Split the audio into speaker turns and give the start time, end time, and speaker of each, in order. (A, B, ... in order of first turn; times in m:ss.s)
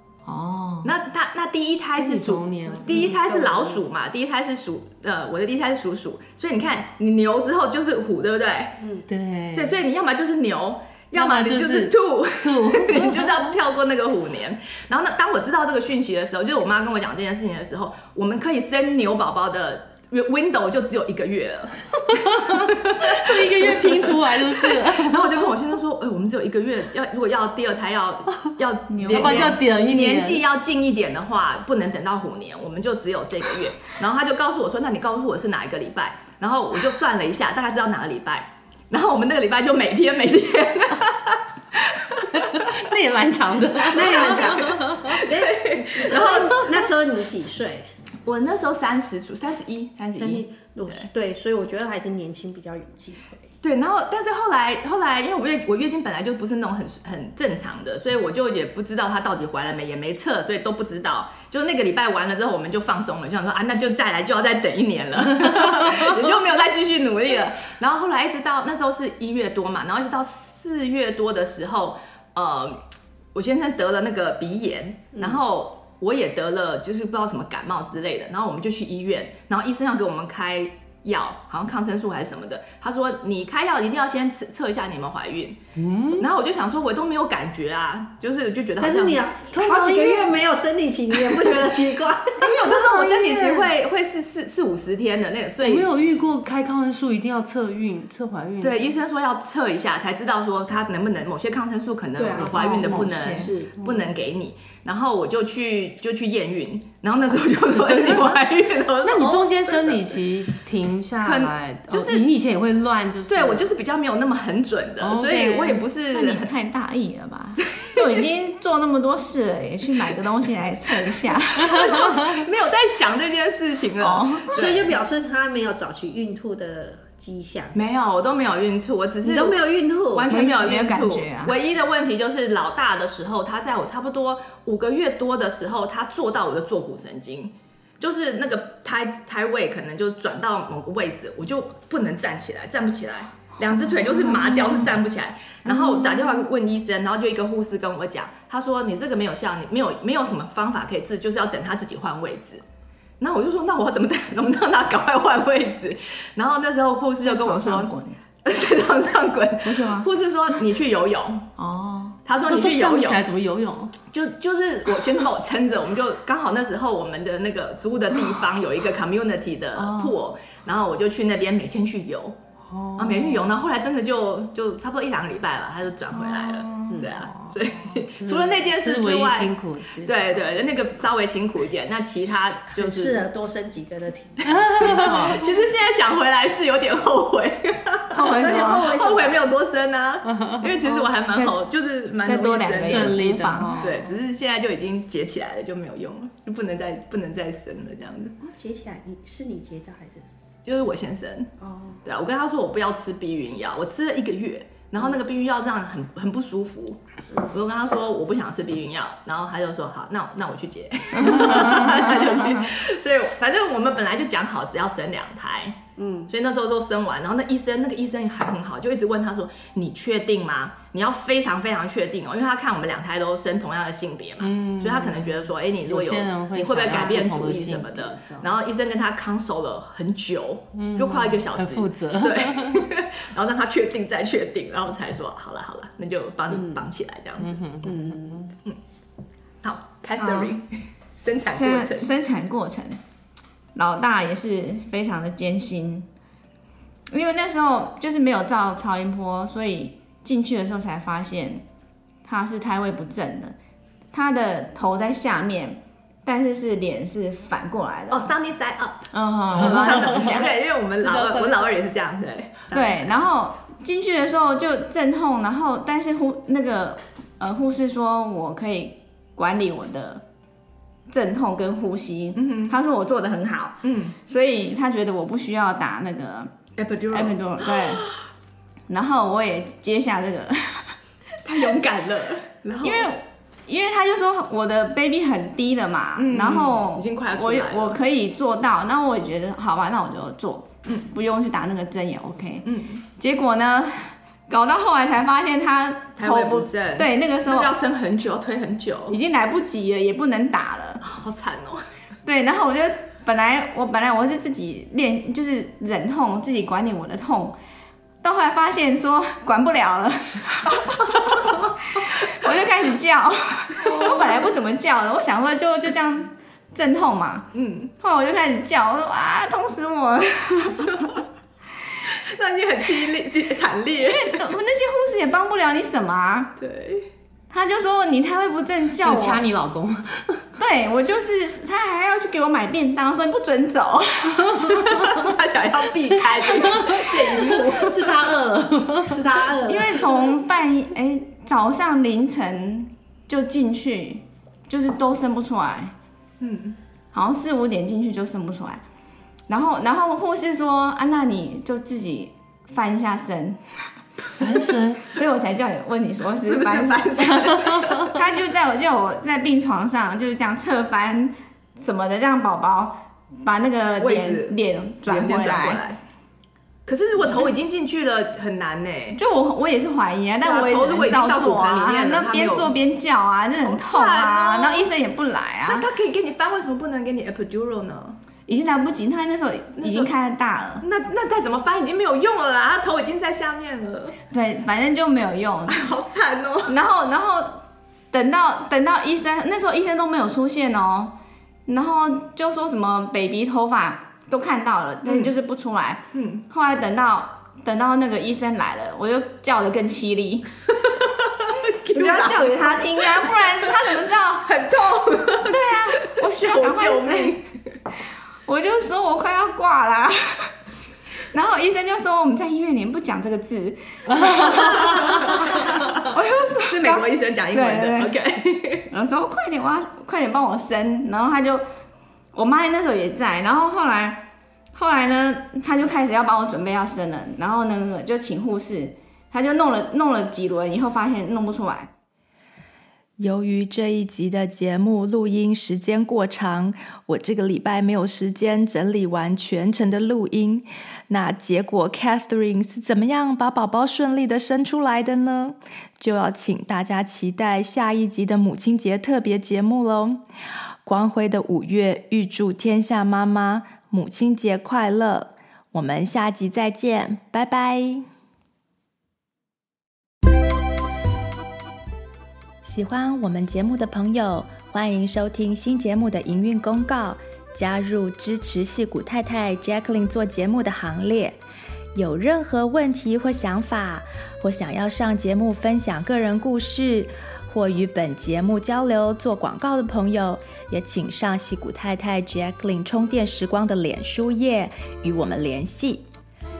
0:00.2-0:00.9 A
0:00.8-0:08.8 B
0:02.0-0:03.2 C
0:02.8-0:03.8 D
0:08.8-0:09.0 D
0:09.1-0:09.8 C
0:09.5-0:42.8 B
0:11.1-0:13.5 C
0:22.1-0:25.5 C
0:28.9-0:29.6 A
0:29.1-0:30.4 C
0:42.4-0:45.2 C
0:43.9-0:47.9 D
0:44.0-0:46.9 B
0:48.2-0:51.1 B
0:50.2-0:53.4 D
0:53.6-1:12.8 B
1:13.3-1:25.6 B
1:15.1-1:15.4 D
1:25.8-1:26.3 C
1:26.2-1:29.2 B
1:28.8-1:32.6 D
1:29.5-1:30.3 C
1:32.4-1:35.9 B
1:32.5-1:33.7 C
1:35.6-1:38.9 C
1:38.6-1:50.2 B
1:42.2-1:42.6 D
1:42.4-1:44.0 C
1:42.4-1:43.5 A
1:43.3-1:43.8 D
1:47.6-1:48.4 C
1:49.0-1:53.7 C
1:51.2-1:52.2 B
1:53.3-1:56.5 B
1:55.0-1:55.8 C
1:56.1-2:02.3 A
1:57.6-1:58.0 B
2:01.6-2:04.9 B
2:04.0-2:04.5 A
2:04.5-2:07.8 D
2:07.7-2:32.6 B
2:09.2-2:10.3 D
2:10.3-2:11.6 A
2:24.1-2:24.7 A
2:25.7-2:26.4 A
2:33.2-2:37.9 B
2:37.2-2:38.2 A
2:38.4-2:41.5 B
2:39.6-2:40.1 A
2:41.6-2:42.2 A
2:42.2-2:43.2 B
2:42.4-2:44.0 C
2:44.0-2:52.4 B
2:49.8-2:50.1 C
2:52.6-2:53.6 C
2:53.0-3:03.2 B
2:56.2-2:57.0 A
2:57.2-3:00.5 C
3:02.6-3:05.4 D
3:04.4-3:05.4 C
3:04.8-3:18.4 B
3:08.1-3:09.0 A
3:08.3-3:09.4 D
3:10.2-3:11.6 C
3:10.8-3:11.1 A
3:12.2-3:14.0 A
3:12.7-3:14.0 C
3:18.4-3:20.3 D
3:20.6-3:21.5 B
3:21.6-3:22.0 D
3:22.0-3:35.8 B
3:31.2-3:32.0 A
3:36.0-3:36.3 D
3:36.3-3:57.6 B
3:44.4-3:45.3 C
3:45.8-3:48.4 C
3:50.7-3:52.9 C
3:56.5-3:56.8 D
3:57.4-3:58.5 C
3:57.8-3:58.5 D
3:59.6-4:02.1 B
4:00.2-4:00.6 A
4:01.4-4:03.0 A
4:03.7-4:06.0 A
4:07.1-4:11.6 A
4:12.2-4:13.6 A
4:14.1-4:18.3 A
4:18.1-4:23.0 B
4:19.1-4:20.6 A
4:19.5-4:20.4 C
4:21.1-4:21.6 C
4:22.7-4:30.2 A
4:31.1-4:38.1 A
4:32.4-4:32.8 B
4:33.8-4:34.2 B
4:36.8-4:38.2 B
4:38.9-4:41.0 A
4:41.4-4:43.1 B
4:42.8-4:57.8 A
4:46.2-4:48.0 B
4:52.6-4:53.0 B
4:56.2-4:59.2 B
4:59.1-5:01.0 A
5:01.0-5:01.8 B
5:02.2-5:07.6 A
5:08.2-5:21.2 A
5:13.7-5:14.4 B
5:17.5-5:17.9 B
5:20.8-5:21.2 B
5:22.1-5:24.4 B
5:24.0-5:26.5 A
5:26.6-5:27.0 B
5:27.5-5:29.4 A
5:29.0-5:30.5 C
5:30.6-5:35.2 A
5:34.4-5:38.1 B
5:36.3-5:40.2 C
5:39.3-5:39.7 D
5:39.6-5:45.9 A
5:46.4-5:46.8 B
5:47.1-5:48.8 A
5:49.5-5:53.6 A
5:54.4-5:55.1 C
5:55.1-6:05.8 A
5:56.4-5:58.2 B
6:04.0-6:06.0 B
6:06.8-6:09.2 B
6:09.2-6:15.9 A
6:10.4-6:12.7 B
6:13.6-6:14.9 B
6:15.6-6:18.2 B
6:18.5-6:20.8 A
6:19.8-6:20.1 B
6:20.8-6:24.2 B
6:24.3-6:25.8 A
6:25.7-6:26.8 B
6:26.7-6:31.1 A
6:31.6-6:40.5 A
6:36.1-6:36.4 B
6:40.7-6:47.5 B
6:41.9-6:47.4 A
6:48.4-6:50.5 A
6:51.3-6:58.1 A
6:54.2-6:58.8 B
6:58.9-7:01.6 A
7:02.3-7:11.9 A
7:13.2-7:30.2 E
7:30.8-7:38.1 E
7:42.6-7:51.4 E
7:51.9-8:06.0 E